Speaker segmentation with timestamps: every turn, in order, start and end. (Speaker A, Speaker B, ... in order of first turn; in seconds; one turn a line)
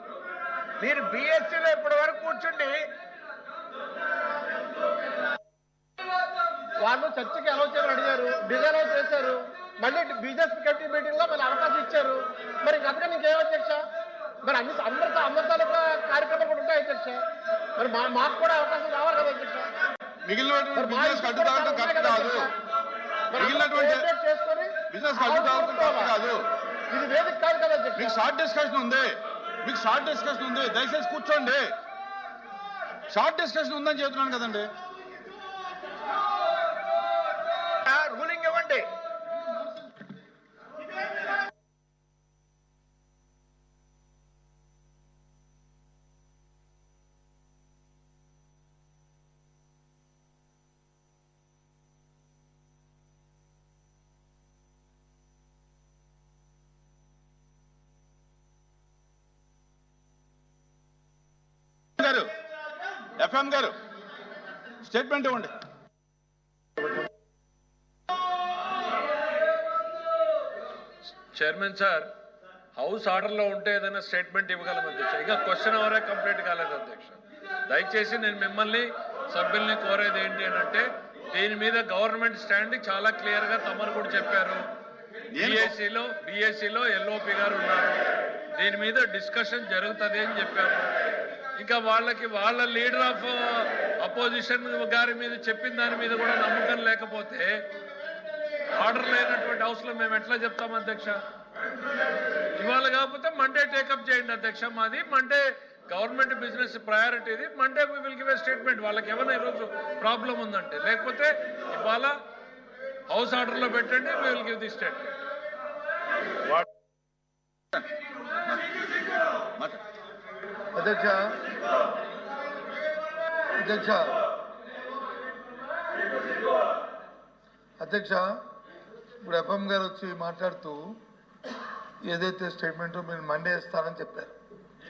Speaker A: 0.8-2.8
Speaker B: 6.8-13.8
Speaker B: 14.4-17.3
Speaker B: 17.8-19.7
Speaker C: 20.2-22.5
Speaker B: 20.8-22.5
Speaker B: 23.3-26.2
Speaker C: 23.4-24.1
Speaker C: 24.9-26.4
Speaker B: 26.9-28.2
Speaker C: 28.0-31.7
Speaker C: 33.1-34.7
Speaker A: 37.9-38.9
Speaker C: 62.0-62.3
Speaker C: 63.2-63.8
Speaker C: 64.8-65.5
Speaker D: 71.3-72.1
Speaker D: 72.8-84.6
Speaker D: 85.3-90.9
Speaker C: 85.4-85.7
Speaker D: 91.6-97.7
Speaker D: 98.7-101.2
Speaker D: 102.6-112.2
Speaker D: 113.1-115.2
Speaker E: 120.8-121.2
Speaker E: 123.6-124.1
Speaker E: 127.8-128.3
Speaker E: 129.2-130.9
Speaker E: 132.1-134.3